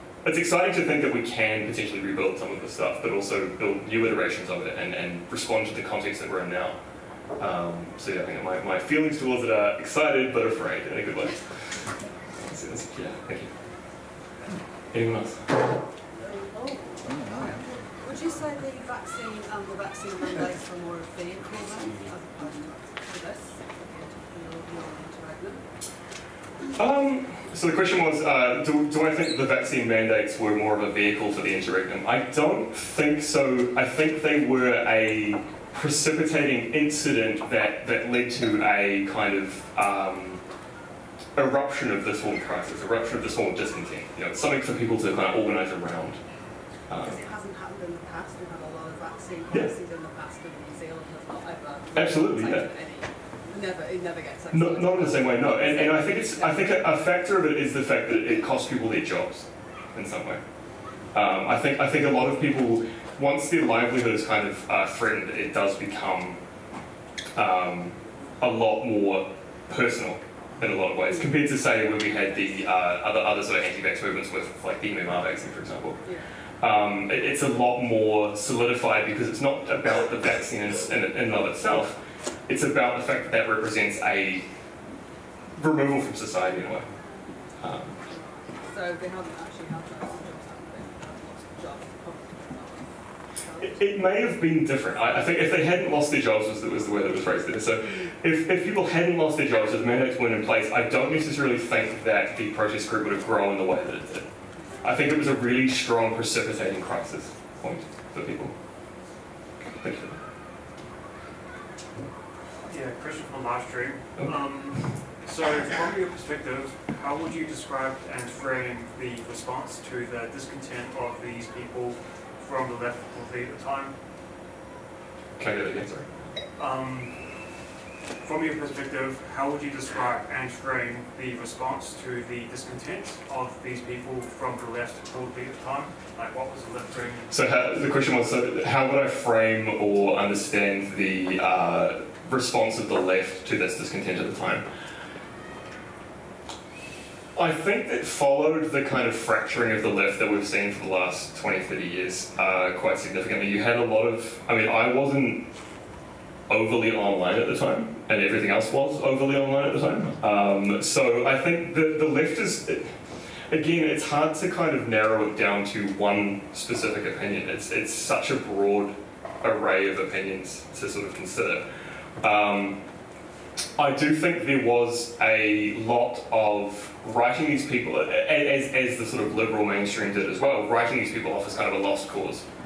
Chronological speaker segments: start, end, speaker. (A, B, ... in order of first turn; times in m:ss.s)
0:00.2-0:06.8 A
0:07.4-0:13.5 A
0:14.9-0:15.6 A
0:16.2-0:25.6 B
0:26.8-0:40.4 A
0:41.4-0:46.2 A
0:46.9-0:47.2 A
0:46.9-0:56.8 B
0:51.9-0:52.7 A
0:54.5-1:00.4 A
1:01.1-1:06.4 A
1:07.3-1:16.1 A
1:11.1-1:11.5 B
1:16.6-1:24.4 A
1:25.6-1:26.9 A
1:27.6-1:28.0 A
1:28.1-1:34.0 B
1:33.6-1:44.2 A
1:37.8-1:38.1 B
1:44.8-1:48.5 A
1:49.6-1:50.2 A
1:52.7-2:04.0 C
1:54.1-1:54.9 A
2:05.4-2:06.1 A
2:06.6-2:07.5 C
2:08.2-2:17.3 C
2:17.3-2:24.6 A
2:27.3-2:35.4 A
2:36.5-2:43.0 A
2:43.5-2:51.6 A
2:52.2-2:52.8 A
2:53.8-3:02.4 A